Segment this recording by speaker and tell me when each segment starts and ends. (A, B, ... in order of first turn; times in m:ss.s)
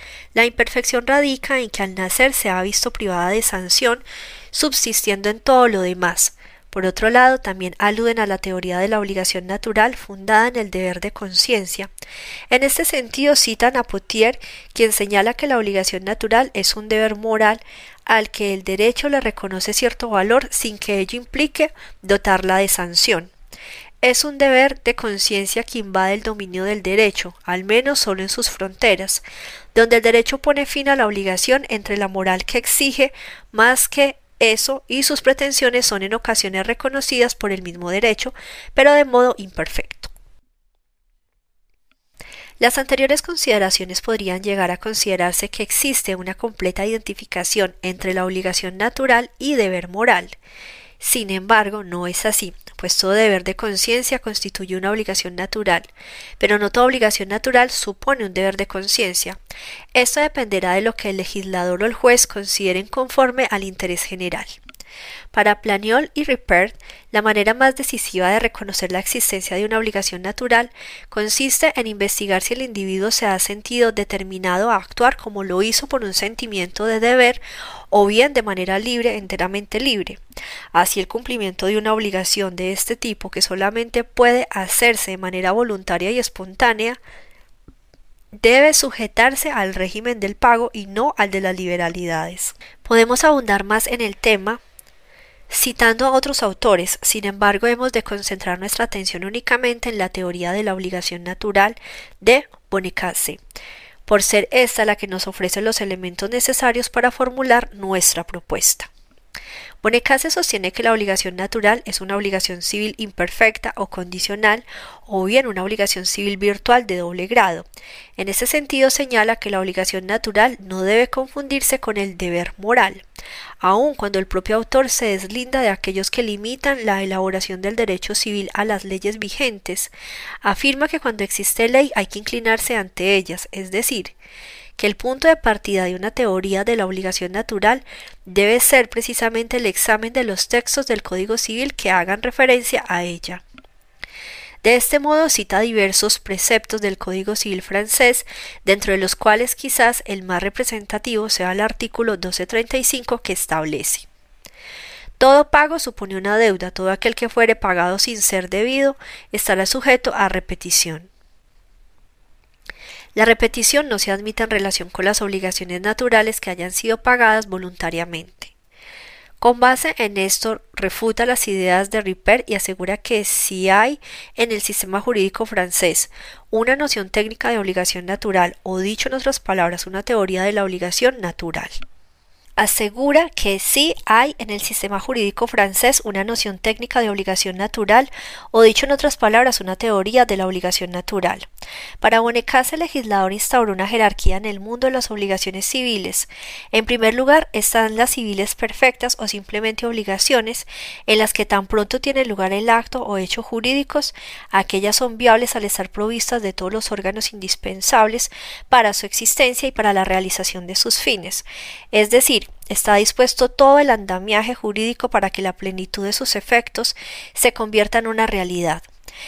0:00.3-0:11.9 A
0:12.5-0:23.3 A
0:24.0-0:29.2 A
0:29.7-0:40.1 A
0:42.6-0:50.4 A
0:51.0-0:55.9 A
0:56.4-0:59.4 A
0:59.9-1:04.6 A
1:05.3-1:20.2 A
1:20.7-1:27.0 A
1:28.4-1:34.6 A
1:35.5-1:43.4 A
1:44.0-1:48.9 A
1:49.8-2:03.0 A
2:03.6-2:09.9 A
2:10.4-2:14.1 A
2:14.8-2:23.4 A
2:24.6-2:34.1 A
2:35.2-2:41.1 A
2:43.2-2:48.5 A
2:49.4-3:01.8 A
3:02.6-3:11.5 A
3:12.0-3:38.8 A